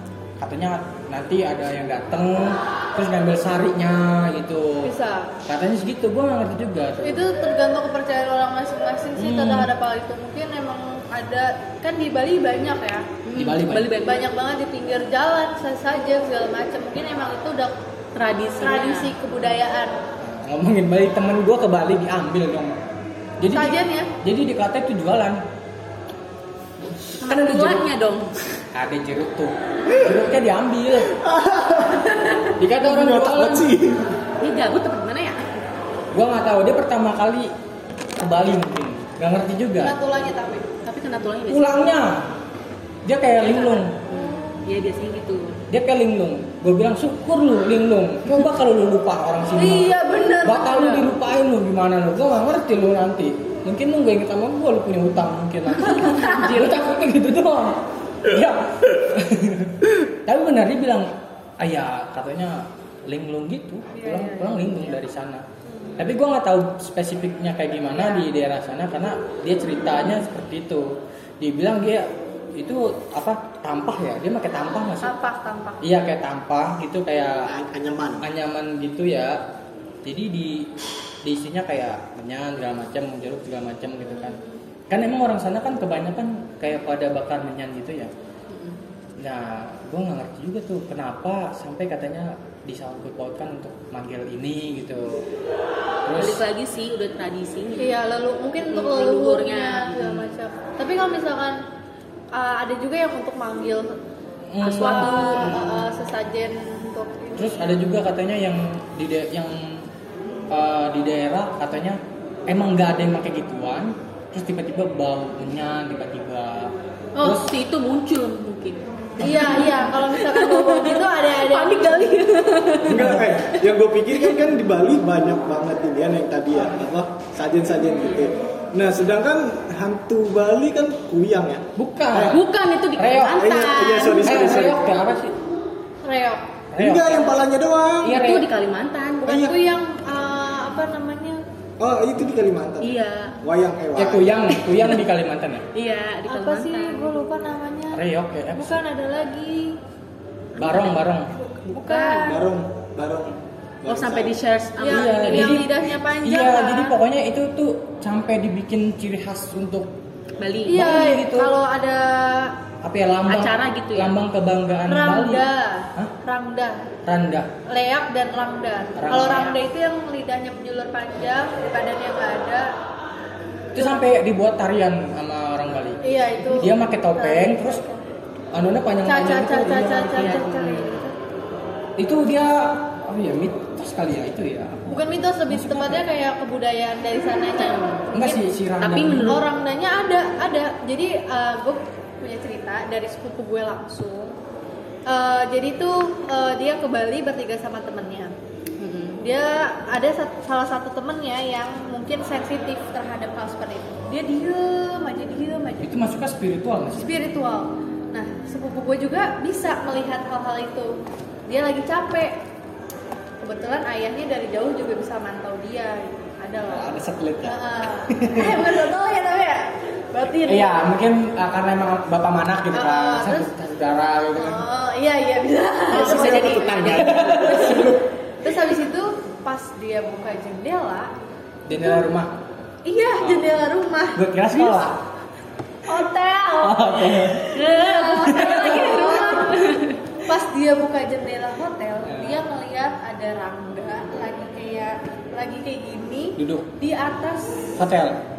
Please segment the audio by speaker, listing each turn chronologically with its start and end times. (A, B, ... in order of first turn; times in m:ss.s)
0:00.4-0:04.9 A
0:04.8-0:05.3 B
0:05.4-0:07.2 A
0:07.0-0:13.1 B
0:09.2-0:09.7 A
0:13.2-0:14.3 C
0:13.3-0:13.9 A
0:13.9-0:17.7 B
0:18.1-0:19.1 C
0:18.6-0:20.0 B
0:20.2-0:22.8 A
0:23.4-0:25.4 A
0:23.5-0:24.1 B
0:26.9-0:27.8 A
0:27.2-0:28.3 C
0:28.7-0:31.1 A
0:29.9-0:30.2 D
0:30.9-0:34.1 D
0:32.6-0:33.7 A
0:34.4-0:35.6 C
0:36.1-0:37.5 A
0:38.2-0:39.9 A
0:39.8-0:40.7 B
0:40.8-0:41.9 C
0:41.5-0:42.2 A
0:43.0-0:43.9 A
0:43.4-0:45.6 C
0:44.1-0:44.6 B
0:45.7-1:05.4 A
0:49.6-0:51.1 B
0:55.8-0:56.7 C
1:03.9-1:05.0 B
1:05.7-1:05.9 B
1:06.0-1:15.1 A
1:07.9-1:08.2 B
1:14.9-1:15.8 B
1:15.8-1:17.5 A
1:17.5-1:18.3 D
1:18.2-1:19.4 A
1:20.0-1:20.7 A
1:21.2-1:24.4 A
1:24.1-1:24.5 B
1:24.9-1:28.1 A
1:28.5-1:28.8 C
1:29.2-1:35.2 A
1:36.0-1:36.4 A
1:36.2-1:38.0 C
1:37.8-1:41.6 B
1:38.6-1:40.3 C
1:42.3-1:44.0 B
1:44.5-1:45.8 A
1:44.6-1:45.7 C
1:44.6-1:47.5 B
1:47.4-1:49.9 A
1:50.5-1:57.5 A
1:57.2-2:04.4 C
1:59.2-2:02.2 B
2:02.8-2:12.4 D
2:11.8-2:12.4 A
2:12.2-2:14.7 C
2:13.0-2:13.5 A
2:13.3-2:14.9 D
2:13.5-2:14.2 B
2:14.2-2:15.4 A
2:16.0-2:16.4 B
2:16.7-2:17.4 A
2:16.8-2:18.2 D
2:18.0-2:18.4 A
2:18.0-2:19.4 C
2:19.2-2:19.5 D
2:19.2-2:21.4 B
2:21.8-2:24.6 D
2:22.8-2:23.3 C
2:24.0-2:25.6 A
2:24.6-2:25.0 C
2:25.7-2:27.1 C
2:26.3-2:28.0 B
2:27.9-2:28.8 A
2:28.5-2:29.8 B
2:30.6-2:31.3 A
2:30.6-2:31.0 C
2:31.6-2:32.4 B
2:31.6-2:32.4 C
2:32.2-2:34.4 D
2:33.9-2:35.7 C
2:34.8-2:37.0 B
2:34.8-2:39.9 A
2:40.4-2:40.9 C
2:40.7-2:42.5 B
2:40.7-2:41.5 A
2:42.8-2:45.4 A
2:43.2-2:44.2 C
2:44.9-2:46.8 B
2:47.0-2:47.5 A
2:47.7-2:52.7 B
2:49.0-2:49.5 A
2:53.7-2:57.8 A
2:53.8-2:54.0 B
2:56.0-2:58.0 B
2:58.5-3:00.5 A
2:59.0-3:01.1 B
3:00.2-3:01.0 C
3:02.0-3:06.0 A
3:04.9-3:08.4 B
3:07.6-3:08.1 C
3:08.1-3:09.4 A
3:08.8-3:09.4 C
3:09.2-3:14.3 B
3:15.1-3:18.3 B
3:18.8-3:19.2 C
3:19.2-3:25.9 B
3:25.8-3:27.1 A
3:26.9-3:30.9 B
3:31.5-3:32.3 B
3:33.4-3:36.9 B
3:36.7-3:37.6 A
3:37.4-3:40.9 B
3:38.1-3:38.8 A
3:40.3-3:44.6 A
3:42.7-3:43.5 B
3:44.3-3:46.9 B
3:45.9-3:47.9 C
3:45.9-3:48.0 D
3:46.9-3:47.7 A
3:48.4-3:51.1 B
3:51.7-3:52.4 A
3:51.8-3:52.0 B
3:52.8-3:54.2 B
3:53.2-3:53.5 A
3:54.2-3:55.0 A
3:55.9-3:59.7 B
3:56.6-3:57.6 A
3:57.5-4:00.0 C
3:58.2-3:59.3 A
4:00.2-4:07.8 B
4:02.0-4:02.4 A
4:06.4-4:06.7 A
4:07.8-4:08.2 A